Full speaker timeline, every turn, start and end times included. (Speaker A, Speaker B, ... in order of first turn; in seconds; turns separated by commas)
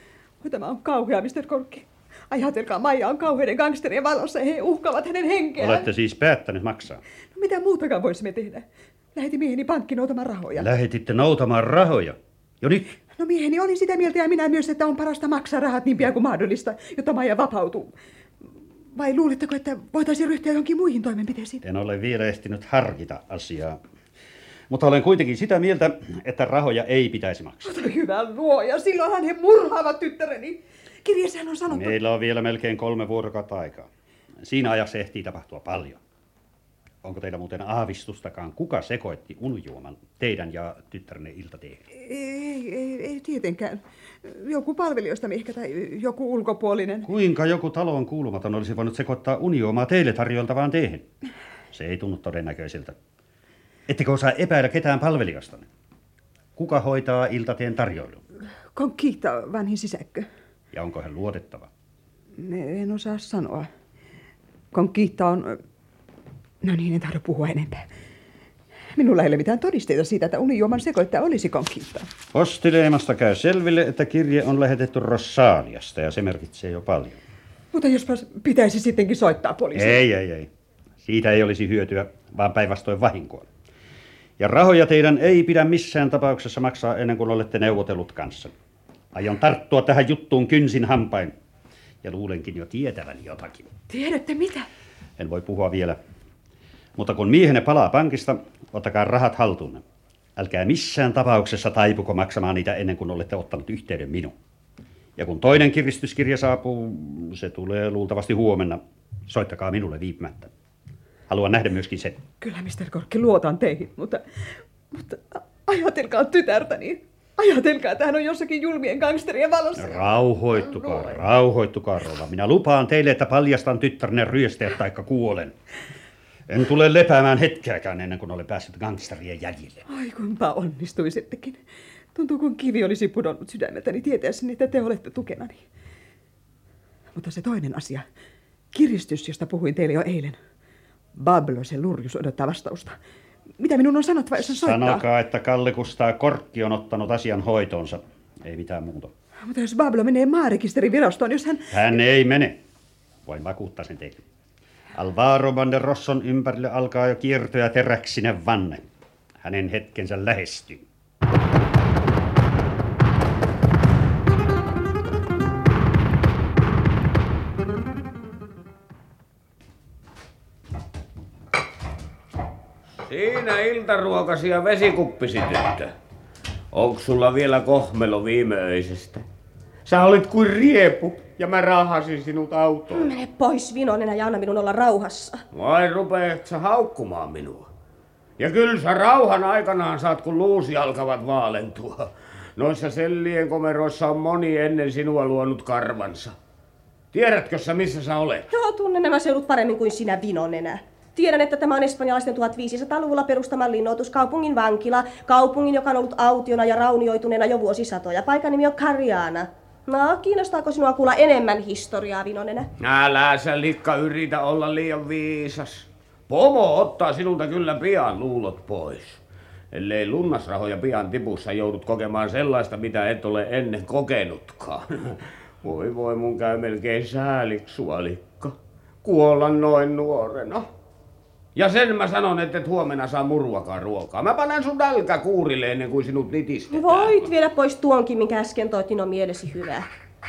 Speaker A: 0.4-5.9, Speaker B: 5.6-7.0, Speaker A: 7.3-10.7, Speaker B: 10.6-13.0, Speaker A: 13.1-17.9, Speaker A: 18.9-21.6, Speaker B: 21.6-23.8, Speaker B: 24.7-27.8, Speaker A: 27.6-31.9, Speaker B: 31.7-33.9, Speaker B: 34.4-36.0, Speaker B: 37.0-41.8, Speaker A: 41.9-47.1, Speaker B: 47.0-51.1, Speaker B: 51.7-53.0, Speaker B: 53.9-55.7, Speaker B: 56.6-58.2, Speaker A: 58.7-60.3, Speaker B: 60.7-61.7, Speaker A: 62.4-63.7, Speaker A: 64.7-65.6, Speaker A: 66.6-67.9, Speaker A: 69.0-72.1, Speaker B: 72.3-77.2, Speaker A: 77.7-80.0, Speaker B: 79.7-80.5, Speaker B: 81.0-83.5, Speaker B: 84.4-88.5, Speaker B: 89.1-91.3, Speaker B: 92.0-93.7, Speaker A: 93.9-94.7, Speaker B: 95.2-96.0, Speaker B: 97.0-99.8, Speaker B: 100.4-104.3, Speaker B: 105.2-110.5, Speaker B: 111.3-112.2, Speaker A: 112.4-114.2, Speaker A: 114.9-120.0, Speaker B: 119.8-125.5, Speaker B: 126.5-129.8, Speaker A: 129.9-131.6, Speaker A: 132.2-135.6, Speaker A: 137.2-138.1, Speaker A: 138.7-140.4, Speaker A: 141.1-143.0, Speaker A: 143.6-145.0, Speaker B: 144.5-149.1, Speaker A: 149.5-151.7, Speaker B: 151.7-152.6, Speaker B: 153.3-154.2, Speaker B: 154.9-160.8, Speaker C: 173.0-175.9, Speaker C: 176.7-179.2, Speaker C: 179.9-183.2, Speaker D: 183.1-185.4, Speaker C: 185.5-187.7, Speaker C: 188.4-196.4, Speaker C: 197.1-198.5, Speaker D: 198.5-212.7, Speaker C: 212.8-219.2, Speaker C: 219.7-230.7, Speaker C: 231.6-237.3, Speaker D: 236.8-239.9